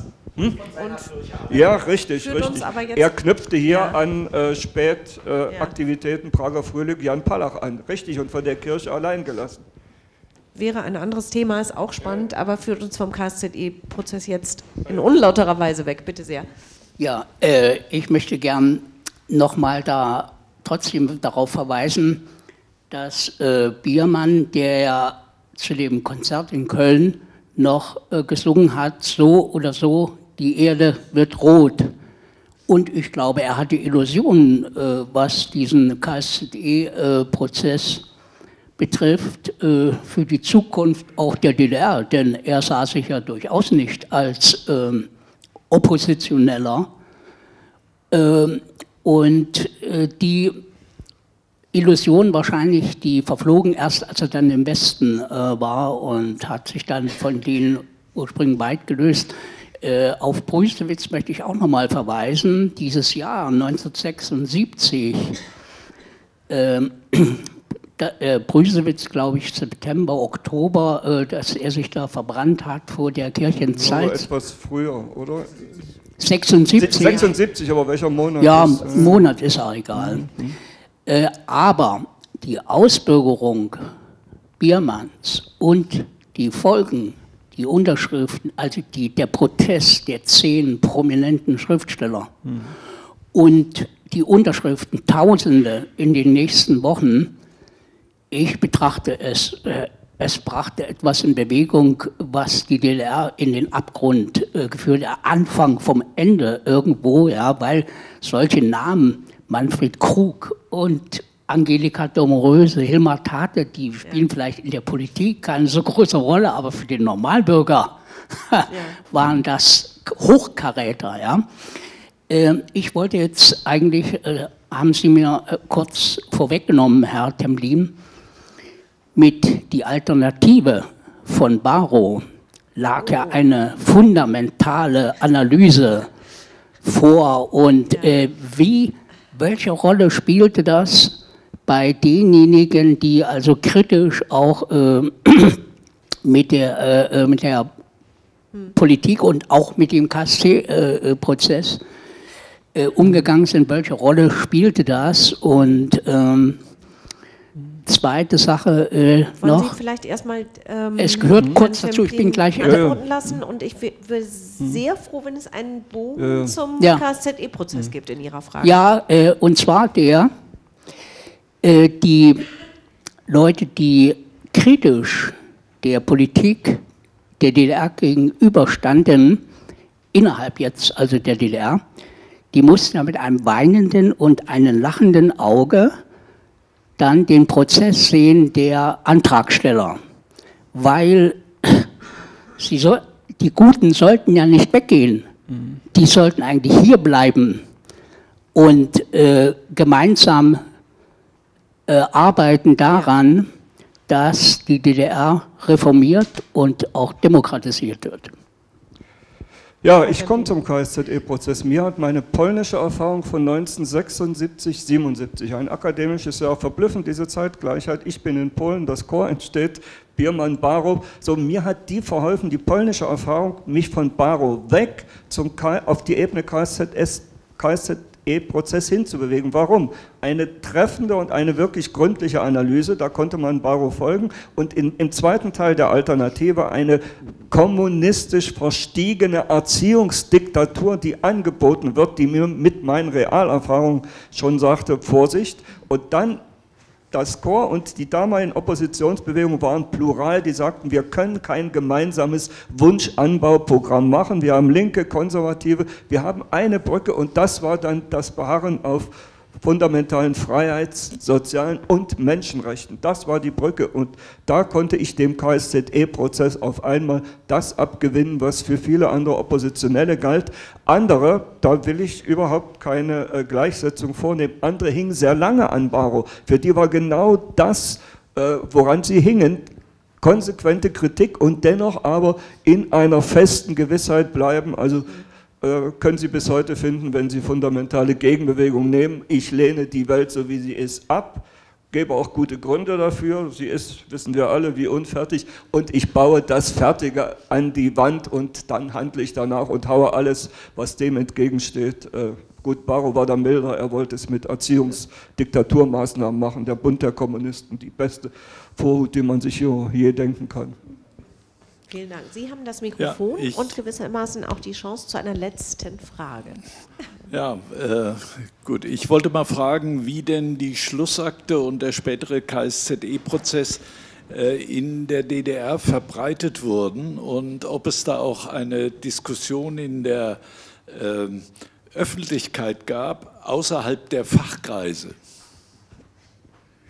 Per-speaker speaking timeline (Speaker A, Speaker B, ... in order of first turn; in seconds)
Speaker A: 0.3-0.7, 1.4-9.6, 73.6-75.7, 76.8-79.2, 79.9-80.6, 92.5-92.7, 162.6-163.4, 166.2-166.6, 209.8-246.4, 247.1-279.7, 280.2-310.8
Speaker B: 0.6-1.4, 2.1-3.1, 3.7-4.0, 5.5-5.7, 10.6-16.5, 118.7-119.0, 133.0-133.3, 159.4-168.8, 210.0-210.6, 311.9-316.6
Speaker C: 17.0-22.3, 22.9-31.9, 32.7-38.0, 38.8-45.1, 45.7-46.9, 48.1-50.6, 51.7-65.4, 66.5-67.5, 68.0-74.3, 76.2-77.3, 78.4-80.3, 81.1-83.9, 84.6-92.3, 93.3-97.3, 98.3-121.5, 122.3-128.0, 129.2-136.1, 136.8-145.6, 146.2-147.7, 148.8-151.8, 152.8-156.7, 157.9-159.8, 161.0-162.9, 166.8-167.0, 168.6-170.3, 171.6-172.5, 173.3-176.8, 177.4-179.4, 180.1-181.8, 182.5-186.0, 187.0-190.0, 190.7-191.9, 192.6-195.3, 195.9-197.6, 198.6-200.6, 201.9-203.5, 204.1-208.3
Speaker D: 313.0-313.8, 317.3-335.1